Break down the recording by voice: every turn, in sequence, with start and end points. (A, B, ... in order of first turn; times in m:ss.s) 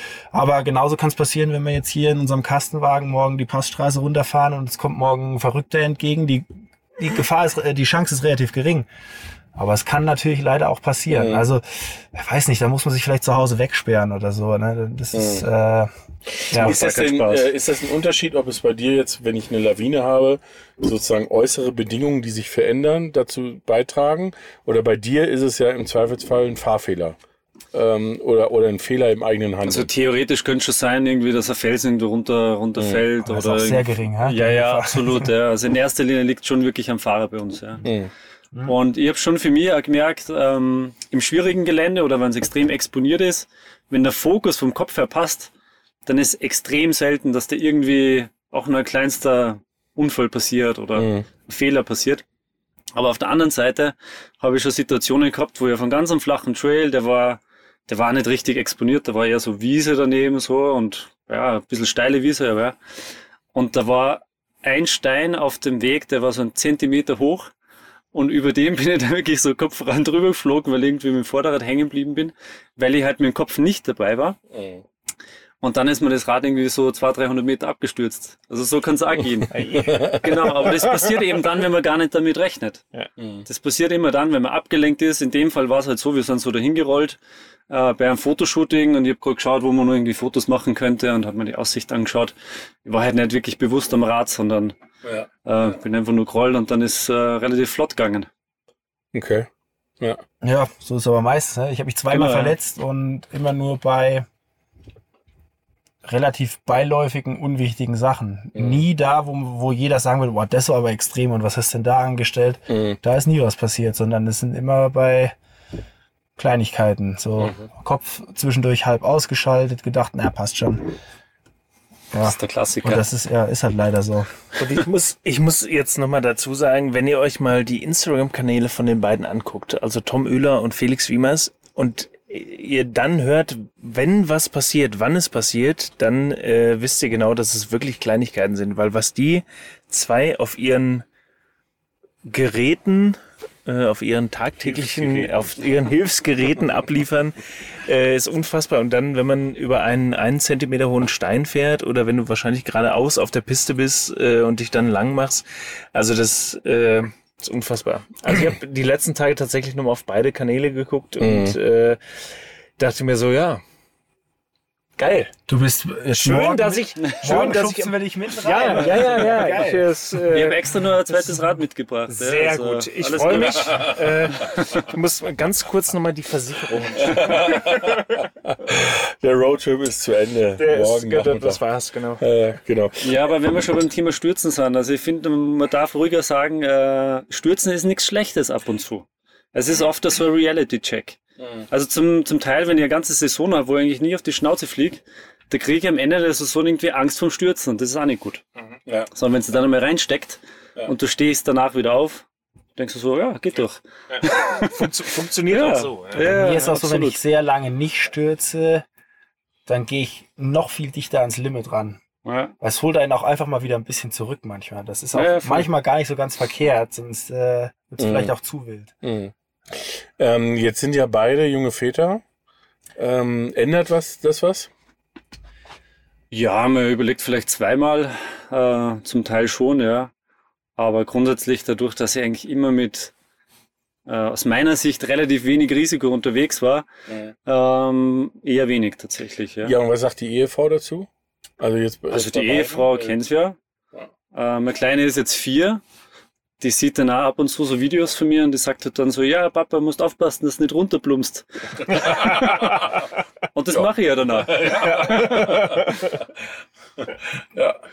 0:00.3-0:06.5 A
0:07.0-0:08.9 A
0:09.6-0:15.9 A
0:11.1-0:11.4 B
0:15.1-0:15.4 B
0:16.5-0:16.8 A
0:16.5-0:27.2 B
0:16.6-0:17.4 C
0:27.7-0:29.9 B
0:29.6-0:37.8 D
0:32.8-0:33.0 B
0:33.2-0:35.3 A
0:37.8-0:38.1 B
0:38.7-0:45.5 D
0:46.1-0:52.2 D
0:51.0-0:51.2 B
0:53.0-1:02.8 D
1:03.5-1:07.5 D
1:08.1-1:14.4 D
1:14.5-1:14.8 B
1:15.6-1:19.6 D
1:19.5-1:20.5 C
1:19.8-1:20.2 B
1:20.1-1:22.8 D
1:23.2-1:23.4 B
1:23.5-1:27.2 D
1:27.7-1:32.3 D
1:32.8-1:34.8 D
1:35.4-1:38.3 D
1:39.1-1:39.5 B
1:40.4-1:44.2 A
1:42.1-1:42.6 D
1:46.0-1:55.4 A
1:48.6-1:48.8 B
1:52.7-1:53.0 B
1:56.4-2:00.9 A
1:57.4-1:57.6 B
2:02.1-2:04.3 A
2:02.2-2:03.0 D
2:04.6-2:21.0 C
2:22.2-2:42.0 C
2:24.6-2:25.3 B
2:41.2-2:41.6 B
2:42.8-2:43.6 C
2:45.0-2:45.3 C
2:45.5-2:49.9 A
2:46.1-2:57.6 C
2:50.2-2:54.8 D
2:57.0-3:01.6 B
3:00.6-3:02.2 C
3:02.2-3:03.2 B
3:03.0-3:11.2 D
3:11.7-3:18.4 D
3:19.2-3:22.2 D
3:22.8-3:24.7 D
3:24.6-3:26.7 C
3:25.5-3:27.2 D
3:26.2-3:28.8 A
3:29.7-3:32.0 A
3:32.2-3:32.5 D
3:32.6-3:38.9 A
3:35.2-3:35.7 D
3:38.0-3:38.3 B
3:39.0-3:42.2 B
3:43.0-3:44.7 B
3:46.3-3:50.1 D
3:50.8-3:53.1 D
3:54.1-3:56.9 D
3:57.5-3:59.7 D
3:59.6-4:01.1 B
4:01.6-4:03.2 B
4:02.1-4:03.6 D
4:04.3-4:05.8 D
4:06.6-4:12.5 D
4:11.9-4:12.8 B
4:13.6-4:15.5 D
4:14.4-4:16.2 B